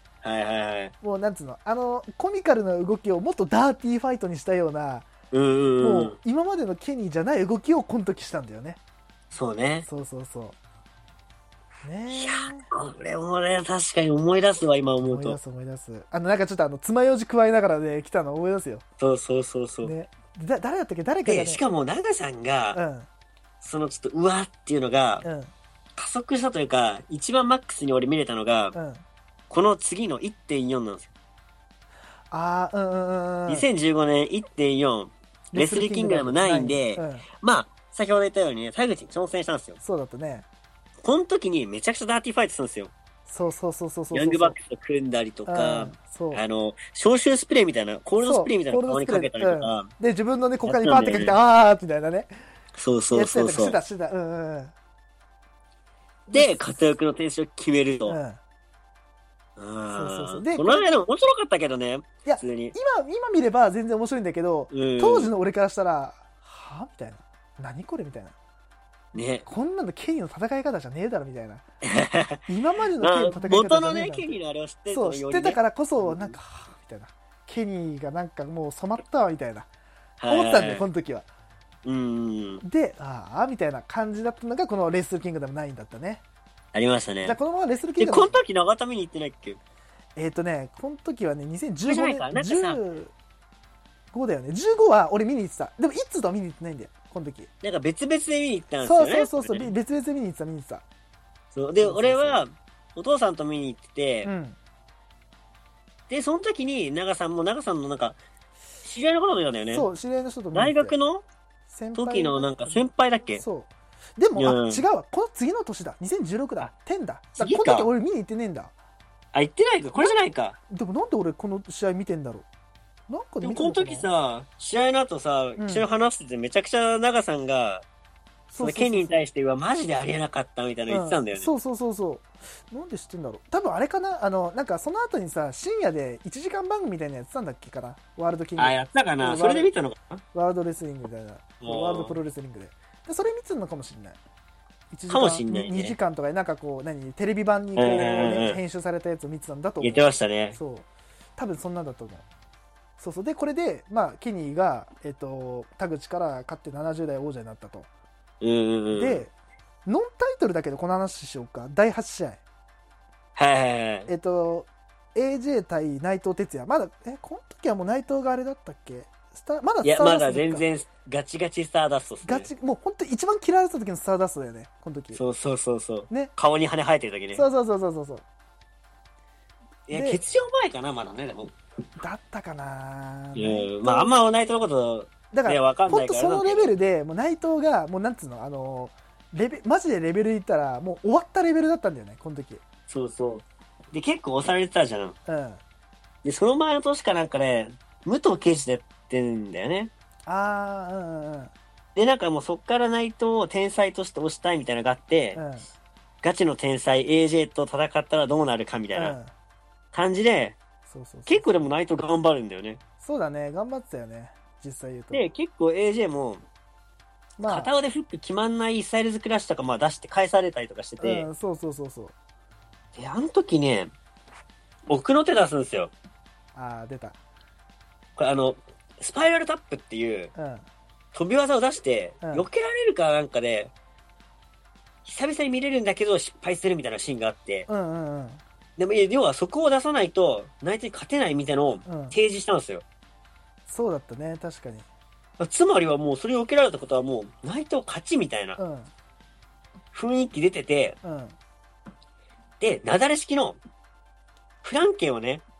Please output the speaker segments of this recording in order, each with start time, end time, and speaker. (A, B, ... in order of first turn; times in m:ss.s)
0:00.2-0:00.9 A
0:01.0-0:05.1 B
0:05.3-0:06.2 A
0:05.8-0:08.8 B
0:09.3-0:09.8 A
0:09.8-0:10.6 B
0:11.8-0:12.7 B
0:12.1-0:15.4 A
0:15.0-0:18.8 B
0:19.0-0:19.9 A
0:19.8-0:21.6 B
0:21.2-0:22.8 A
0:22.7-0:23.1 B
0:23.6-0:25.2 A
0:25.2-0:25.5 B
0:26.0-0:28.7 A
0:28.7-0:29.0 B
0:29.5-0:31.1 A
0:32.3-0:33.6 B
0:33.5-0:39.8 A
0:35.5-0:37.2 B
0:39.8-0:40.4 B
0:41.0-0:42.9 A
0:43.2-0:44.6 B
0:44.1-0:49.9 A
0:45.4-0:46.4 B
0:48.2-0:52.3 B
0:50.6-0:51.4 A
0:52.7-0:53.8 A
0:53.1-0:54.7 B
0:56.3-0:56.8 B
0:56.3-0:58.2 A
0:58.0-0:58.4 B
0:59.6-1:02.7 A
0:59.9-1:00.9 B
1:02.2-1:08.3 B
1:04.7-1:05.3 A
1:09.1-1:09.4 A
1:09.4-1:11.6 B
1:11.8-1:12.4 A
1:12.5-1:14.3 B
1:13.0-1:16.4 A
1:14.9-1:19.7 B
1:20.2-1:20.8 A
1:20.3-1:21.3 B
1:21.8-1:22.6 A
1:22.6-1:26.2 B
1:26.7-1:27.4 A
1:27.2-1:28.4 B
1:28.0-1:29.6 A
1:30.2-1:33.1 B
1:31.8-1:32.8 A
1:34.1-1:37.5 B
1:37.6-1:39.7 A
1:38.8-1:40.8 B
1:41.5-1:44.3 A
1:41.8-1:42.4 B
1:44.2-1:44.6 B
1:46.1-1:48.2 A
1:48.8-1:49.8 A
1:49.7-1:50.9 B
1:50.5-1:51.2 A
1:51.7-1:58.7 B
1:52.0-1:53.4 A
1:54.4-1:54.8 A
1:57.4-1:57.9 A
1:59.3-2:00.6 A
2:00.7-2:02.4 B
2:03.1-2:04.0 B
2:03.4-2:07.8 A
2:05.6-2:05.9 B
2:08.5-2:09.2 B
2:08.6-2:11.5 A
2:10.9-2:19.7 B
2:18.6-2:20.2 A
2:20.3-2:24.2 B
2:21.6-2:22.2 A
2:24.9-2:32.2 B
2:25.1-2:25.9 A
2:27.8-2:28.6 A
2:29.8-2:30.6 A
2:33.0-2:37.9 B
2:38.4-2:39.2 A
2:38.9-2:39.3 B
2:39.8-2:42.4 B
2:43.4-2:44.1 A
2:44.1-2:50.6 B
2:49.8-2:52.5 A
2:52.2-2:55.2 B
2:55.1-2:57.4 A
2:57.3-2:58.2 B
2:59.9-3:01.5 A
2:59.9-3:00.2 B
3:02.0-3:04.1 B
3:03.3-3:06.7 A
3:05.3-3:12.6 B
3:12.9-3:15.2 A
3:15.2-3:15.6 B
3:16.2-3:19.9 A
3:20.2-3:21.5 B
3:21.9-3:25.4 A
3:25.3-3:25.6 B
3:26.2-3:29.2 A
3:28.9-3:29.3 B
3:29.9-3:30.6 A
3:30.9-3:31.7 B
3:31.3-3:32.8 A
3:33.0-3:35.2 B
3:35.1-3:36.4 A
3:37.4-3:37.7 B
3:37.5-3:41.3 A
3:41.0-3:42.1 B
3:42.9-3:43.9 A
3:44.9-3:45.9 A
3:46.5-3:47.2 B
3:48.2-3:50.3 A
3:50.3-3:50.6 B
3:51.1-3:53.7 A
3:52.2-3:52.5 B
3:55.0-3:57.7 A
3:57.7-3:58.4 B
3:58.8-4:02.8 A
4:01.8-4:02.2 B
4:03.7-4:04.9 B
4:05.4-4:08.6 A
4:08.6-4:08.9 B
4:09.9-4:11.0 A
4:11.0-4:11.4 B
4:12.6-4:13.6 A
4:14.6-4:15.4 A